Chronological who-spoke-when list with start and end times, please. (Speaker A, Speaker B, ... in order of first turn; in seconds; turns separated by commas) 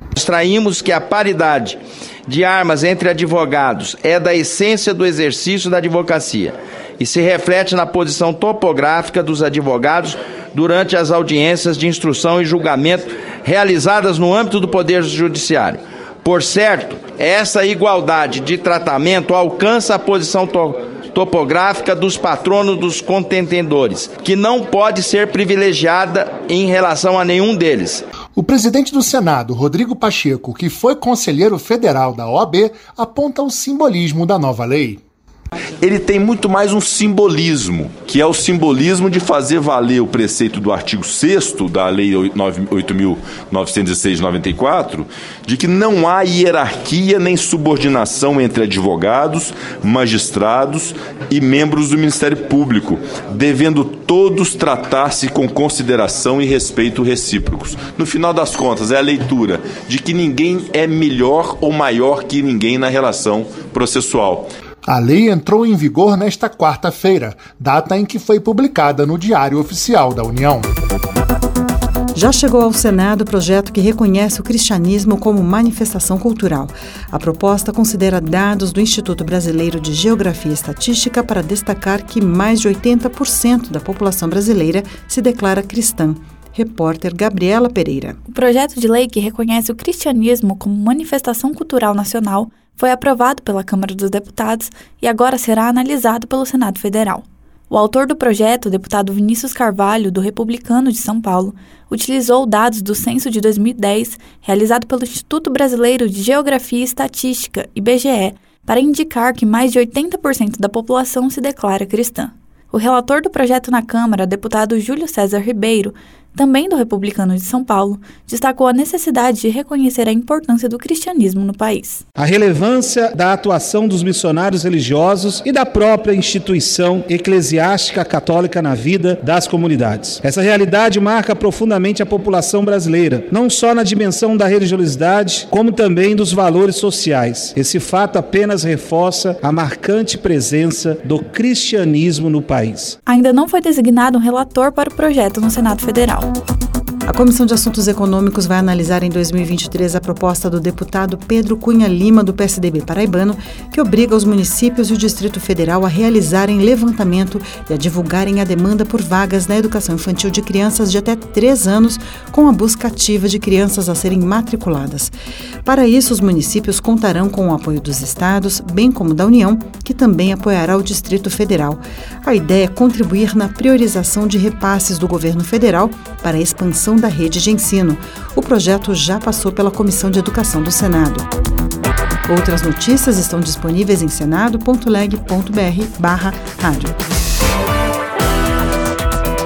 Speaker A: 0.2-28.0, Speaker B: 28.4-35.0, Speaker C: 35.8-64.5, Speaker B: 64.8-70.7, Speaker D: 72.1-88.2, Speaker E: 88.3-122.0, Speaker F: 122.2-142.9, Speaker E: 143.1-146.3, Speaker D: 147.1-165.1, Speaker D: 165.6-181.3, Speaker D: 182.3-187.0